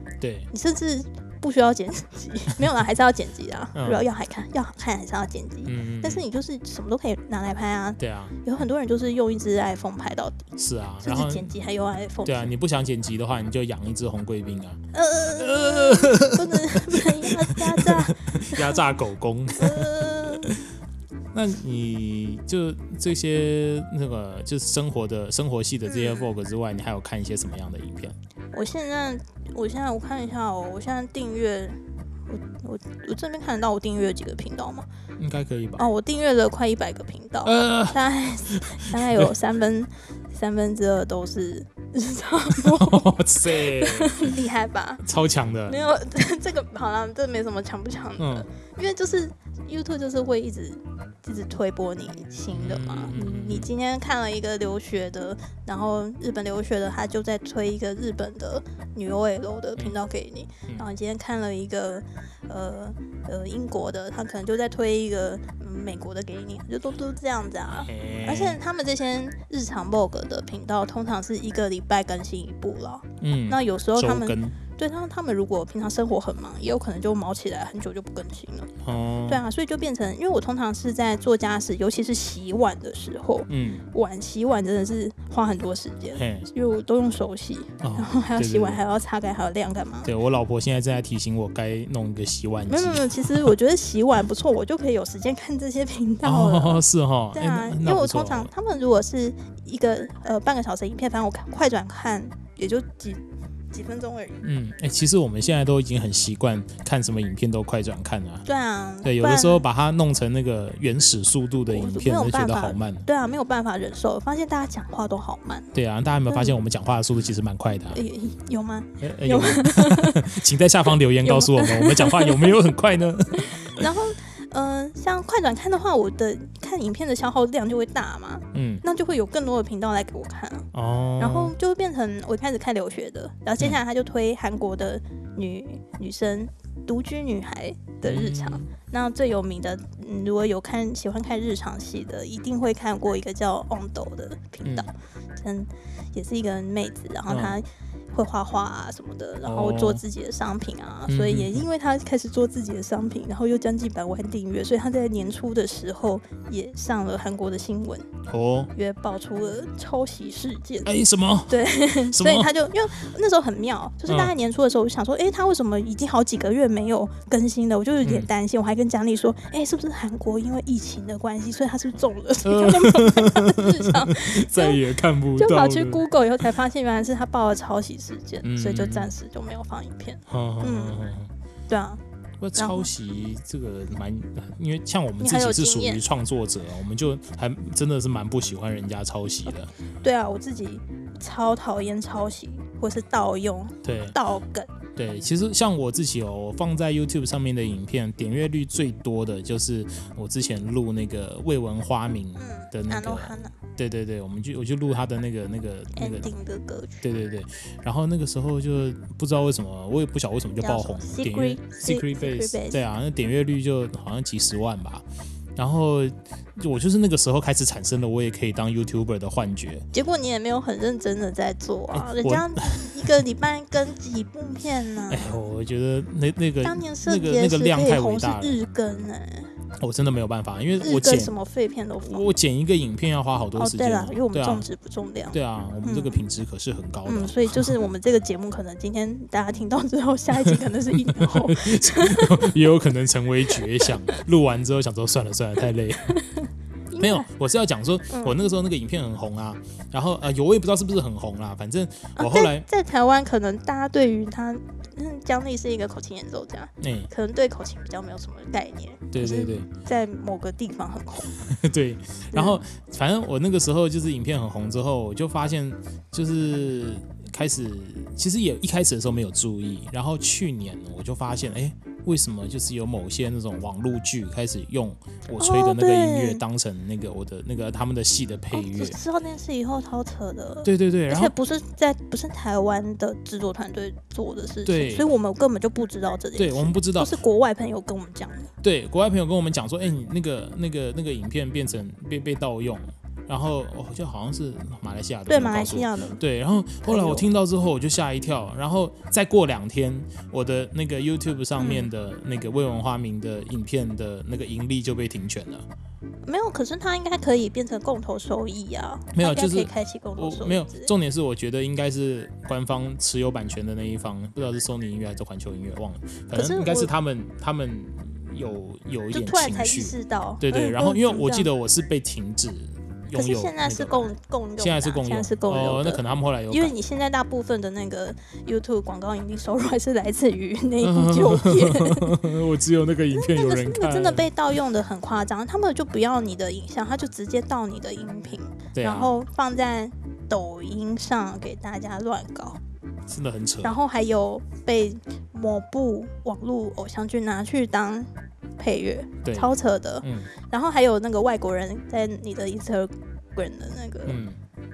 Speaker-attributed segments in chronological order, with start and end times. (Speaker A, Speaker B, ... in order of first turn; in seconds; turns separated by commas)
Speaker A: 0.2-0.5, Speaker B: 0.5-10.5, Speaker A: 3.8-4.1, Speaker A: 5.7-6.2, Speaker A: 8.0-8.3, Speaker A: 10.6-11.5, Speaker B: 11.0-12.5, Speaker A: 12.2-14.8, Speaker B: 14.9-18.8, Speaker A: 15.3-20.7, Speaker B: 19.6-20.6, Speaker A: 21.3-28.2, Speaker B: 25.9-26.3, Speaker B: 28.5-34.9, Speaker A: 35.2-35.9, Speaker B: 35.8-45.0, Speaker A: 37.5-39.3, Speaker A: 42.5-44.4, Speaker A: 45.0-45.8, Speaker B: 45.7-78.7, Speaker A: 48.2-48.5, Speaker A: 52.5-53.7, Speaker A: 67.7-68.6, Speaker A: 73.2-74.6, Speaker A: 78.8-79.4, Speaker B: 79.3-90.1, Speaker A: 83.5-83.8, Speaker A: 86.2-86.5, Speaker A: 87.8-88.8, Speaker A: 90.0-93.5, Speaker B: 92.7-104.4, Speaker A: 96.2-98.5, Speaker A: 104.4-108.5, Speaker B: 108.5-109.6, Speaker A: 109.0-113.1, Speaker B: 111.7-115.7, Speaker A: 115.7-118.0, Speaker B: 116.3-116.5, Speaker B: 117.9-120.3, Speaker A: 119.0-123.9, Speaker B: 121.2-122.6, Speaker B: 123.3-158.1, Speaker A: 128.5-128.8, Speaker A: 130.7-131.6, Speaker A: 138.0-138.7, Speaker A: 144.6-144.9, Speaker A: 147.3-147.6, Speaker A: 149.4-150.0, Speaker A: 151.1-151.7, Speaker A: 158.3-158.7, Speaker B: 158.7-160.9, Speaker A: 160.8-162.5, Speaker B: 161.5-174.8, Speaker A: 164.1-164.3, Speaker A: 168.0-168.3, Speaker A: 172.4-176.1, Speaker B: 175.4-181.0, Speaker A: 178.4-179.1, Speaker A: 180.3-181.3, Speaker B: 181.7-182.0, Speaker A: 182.4-189.7, Speaker B: 182.6-182.9, Speaker B: 185.2-186.0, Speaker B: 190.0-194.7, Speaker A: 193.8-194.2, Speaker A: 195.0-206.3, Speaker B: 202.4-203.6, Speaker B: 206.0-207.1, Speaker A: 207.0-219.9, Speaker B: 210.6-212.8, Speaker B: 219.9-225.4, Speaker A: 221.9-223.1, Speaker A: 225.1-228.6, Speaker B: 226.6-229.5, Speaker A: 229.8-231.3, Speaker B: 230.8-232.2, Speaker A: 232.0-234.7, Speaker B: 233.6-236.2, Speaker A: 235.3-237.8, Speaker B: 237.1-242.5, Speaker A: 240.4-246.2, Speaker B: 243.9-244.2, Speaker B: 246.1-247.3, Speaker A: 247.0-252.7, Speaker B: 248.1-248.4, Speaker B: 252.2-261.3, Speaker A: 256.8-257.1, Speaker A: 259.1-259.7, Speaker A: 261.4-279.0, Speaker B: 262.3-262.6, Speaker B: 275.4-276.4, Speaker B: 278.5-288.5, Speaker A: 280.6-281.3, Speaker A: 284.7-285.1, Speaker A: 286.4-287.2, Speaker A: 288.6-305.7, Speaker B: 295.3-296.2, Speaker B: 296.9-297.3, Speaker B: 301.6-301.9, Speaker B: 306.2-310.9, Speaker A: 309.1-324.1, Speaker B: 316.3-316.9, Speaker B: 319.1-321.5, Speaker B: 323.1-332.1, Speaker A: 324.6-326.7, Speaker A: 330.8-334.3, Speaker B: 333.1-342.6, Speaker A: 338.8-339.1, Speaker A: 343.1-343.8, Speaker B: 343.6-354.2, Speaker A: 349.2-350.3, Speaker A: 354.1-354.4